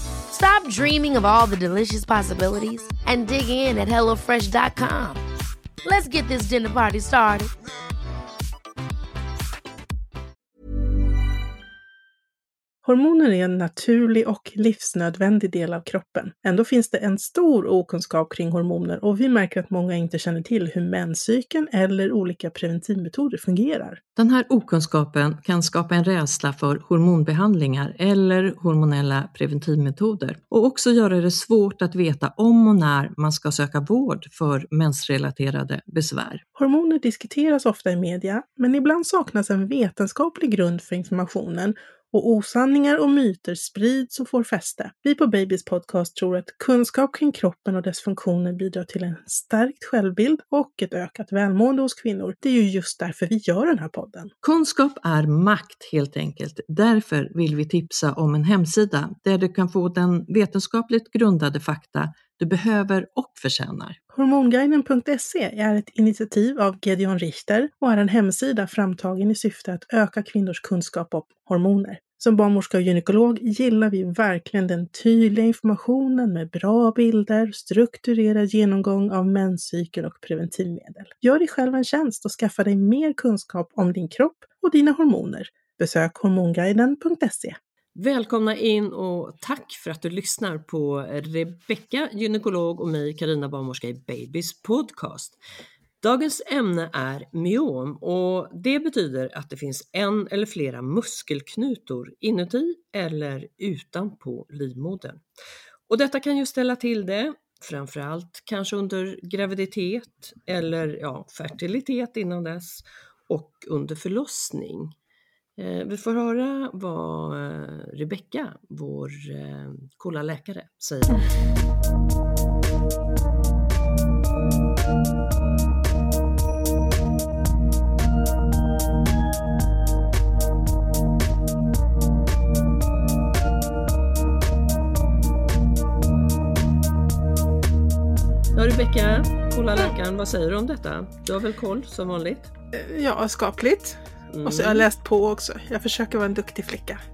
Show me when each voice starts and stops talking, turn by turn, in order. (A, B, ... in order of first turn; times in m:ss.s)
0:00.3-0:05.2 A
0:05.8-0:07.5 A
0:12.8-0:24.0 B
0:24.2-0:36.4 C
0:36.6-0:54.3 B
0:54.4-1:04.0 C
1:04.1-1:27.6 B
1:28.0-1:35.4 C
1:36.0-1:45.2 C
1:45.9-1:54.9 C
1:55.6-2:01.3 C
2:18.5-2:22.5 C
2:22.7-2:27.0 B
2:24.3-2:24.9 C